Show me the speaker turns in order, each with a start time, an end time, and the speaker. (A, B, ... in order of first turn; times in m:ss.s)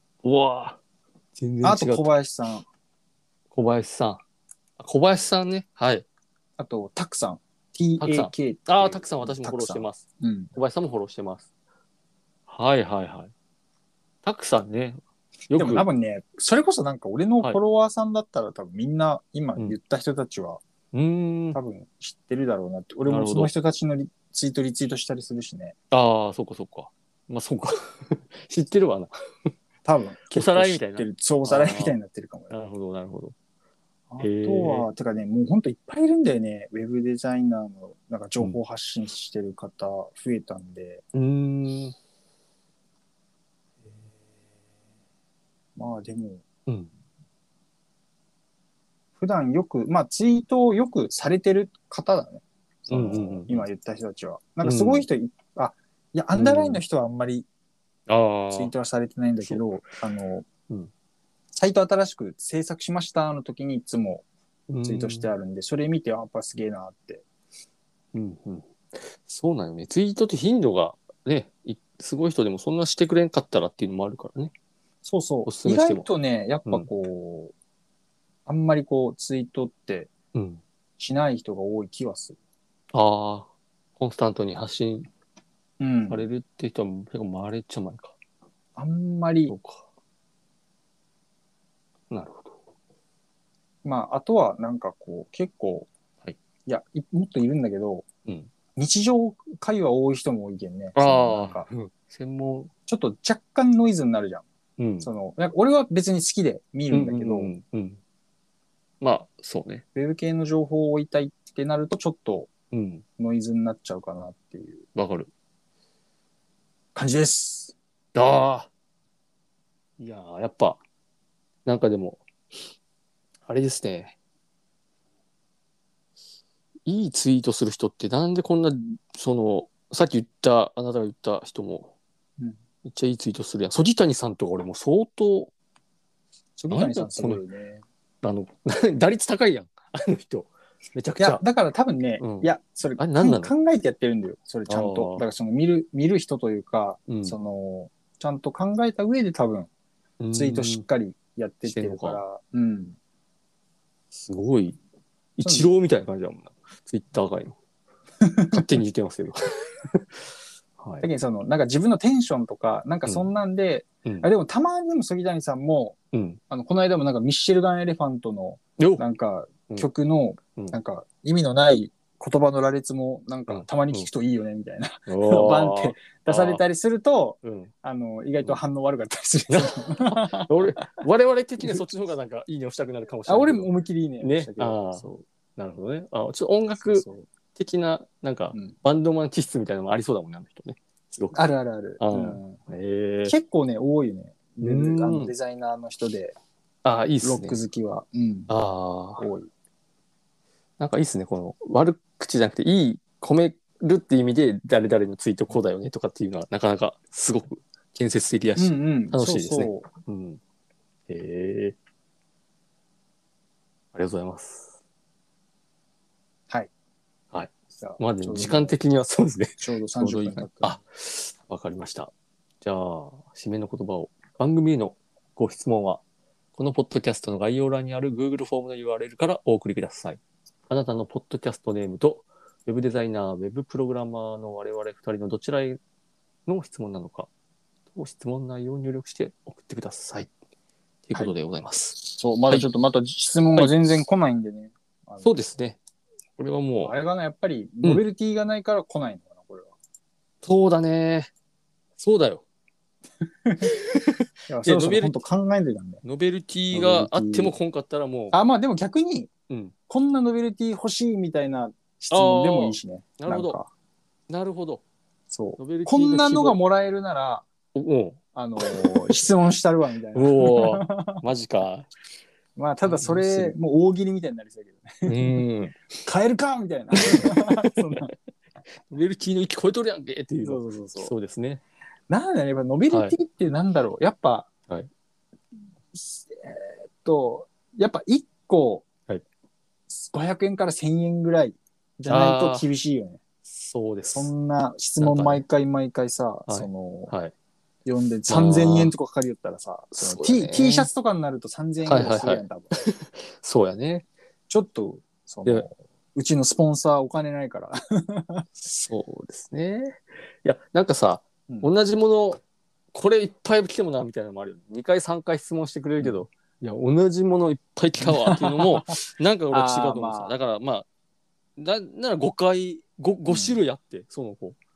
0:00.2-0:00.8 A
0:01.4-0:02.1 A
0:01.6-0:02.6 B
0:03.5-0:04.2 A
0:04.8-0:06.0 A
0:06.6-0:10.5 B
0:08.0-0:11.5 A
0:12.5-0:13.3 A
0:14.2-0:15.9 A
0:15.5-0:20.6 B
0:20.9-0:21.6 A
0:21.5-0:25.7 B
0:23.1-0:23.5 A
0:25.9-0:29.5 A
0:29.8-0:32.5 B
0:30.3-0:32.0 A
0:32.5-0:33.3 A
0:34.1-0:41.0 B
0:34.2-0:34.9 A
0:41.1-0:42.0 A
0:45.8-0:46.4 B
0:49.2-0:57.4 B
0:52.9-0:53.7 A
0:54.6-0:55.0 A
0:56.3-0:56.8 A
0:58.1-0:58.7 A
0:58.5-1:00.4 B
1:01.5-1:04.2 B
1:04.7-1:05.3 A
1:04.8-1:07.2 B
1:08.1-1:14.5 A
1:15.0-1:17.5 B
1:15.4-1:16.0 A
1:18.5-1:20.1 B
1:20.3-1:20.6 A
1:21.0-1:22.4 B
1:22.9-1:25.1 A
1:25.8-1:26.3 B
1:26.1-1:28.1 A
1:28.8-1:29.5 B
1:29.5-1:29.8 A
1:32.1-1:32.6 A
1:33.8-1:35.9 B
1:36.6-1:38.0 B
1:38.8-1:41.6 B
1:40.9-1:42.7 A
1:42.9-1:44.4 B
1:44.8-1:45.1 A
1:45.0-1:47.5 B
1:46.9-1:48.0 A
1:49.0-1:49.8 A
1:49.9-1:52.5 B
1:52.7-1:53.0 A
1:53.2-1:54.8 B
1:54.9-1:55.3 A
1:56.9-1:57.7 B
1:58.1-1:58.7 A
2:00.0-2:00.8 A
2:01.6-2:02.2 A
2:03.4-2:04.2 A
2:06.8-2:11.9 A
2:12.8-2:15.5 A
2:16.6-2:17.8 B
2:16.7-2:17.4 A
2:18.2-2:21.4 A
2:21.2-2:29.7 B
2:22.2-2:23.5 A
2:24.7-2:25.2 A
2:27.1-2:27.4 A
2:30.2-2:30.8 A
2:30.3-2:33.0 B
2:31.6-2:32.2 A
2:34.1-2:34.8 A
2:35.4-2:37.5 A
2:35.4-2:35.7 B
2:38.2-2:38.7 B
2:38.5-2:39.4 A
2:40.8-2:41.1 A
2:41.0-2:46.0 B
2:46.1-2:46.4 A
2:46.5-3:00.6 B
2:48.8-2:49.0 A
2:53.5-2:54.1 A
2:55.1-2:56.6 A
2:57.4-2:57.7 A
2:59.5-3:03.7 A
3:03.3-3:05.2 B
3:04.2-3:11.4 A
3:06.8-3:07.2 B
3:11.3-3:12.6 B
3:12.0-3:13.4 A
3:13.3-3:16.3 B
3:14.6-3:15.3 A
3:16.8-3:17.6 A
3:17.2-3:18.5 B
3:18.5-3:19.3 A
3:19.2-3:19.5 B
3:20.8-3:30.4 A
3:28.6-3:29.9 B
3:31.1-3:31.7 A
3:33.9-3:34.7 A
3:37.3-3:46.0 A
3:37.7-3:38.8 B
3:39.6-3:40.8 B
3:46.6-3:55.8 A
3:56.4-3:57.3 A
3:57.9-4:00.3 A
4:01.1-4:02.7 A
4:02.1-4:05.3 B
4:05.2-4:05.8 A
4:06.4-4:07.0 A
4:06.8-4:09.7 B
4:10.4-4:11.3 A
4:12.0-4:12.4 A
4:13.4-4:13.7 B
4:13.6-4:15.2 A
4:14.5-4:16.0 B
4:16.0-4:18.4 A
4:16.7-4:17.5 B
4:18.3-4:19.3 B
4:19.9-4:23.7 B
4:22.1-4:23.6 A
4:24.3-4:24.8 A
4:25.3-4:27.4 B
4:25.6-4:26.6 A
4:27.7-4:29.2 A
4:28.3-4:31.2 B
4:30.1-4:31.9 A
4:32.6-4:35.4 B
4:32.8-4:33.5 A
4:35.0-4:35.8 A
4:36.0-4:38.1 B
4:36.9-4:38.1 A
4:38.9-4:41.6 A
4:40.4-4:41.1 B
4:42.1-4:44.5 B
4:42.9-4:43.2 A
4:45.9-4:48.8 B
4:49.9-4:53.2 B
4:52.1-4:52.7 A
4:53.5-4:54.3 A
4:54.1-4:57.1 B
4:55.0-4:55.4 A
4:56.5-4:57.3 A
4:57.8-5:02.8 B
4:58.3-4:58.9 A
4:59.9-5:00.9 A
5:01.8-5:04.0 A
5:04.5-5:08.4 B
5:08.6-5:12.4 A
5:12.9-5:20.8 A
5:18.0-5:18.8 B
5:19.5-5:20.3 B
5:21.6-5:24.6 A
5:23.3-5:23.6 B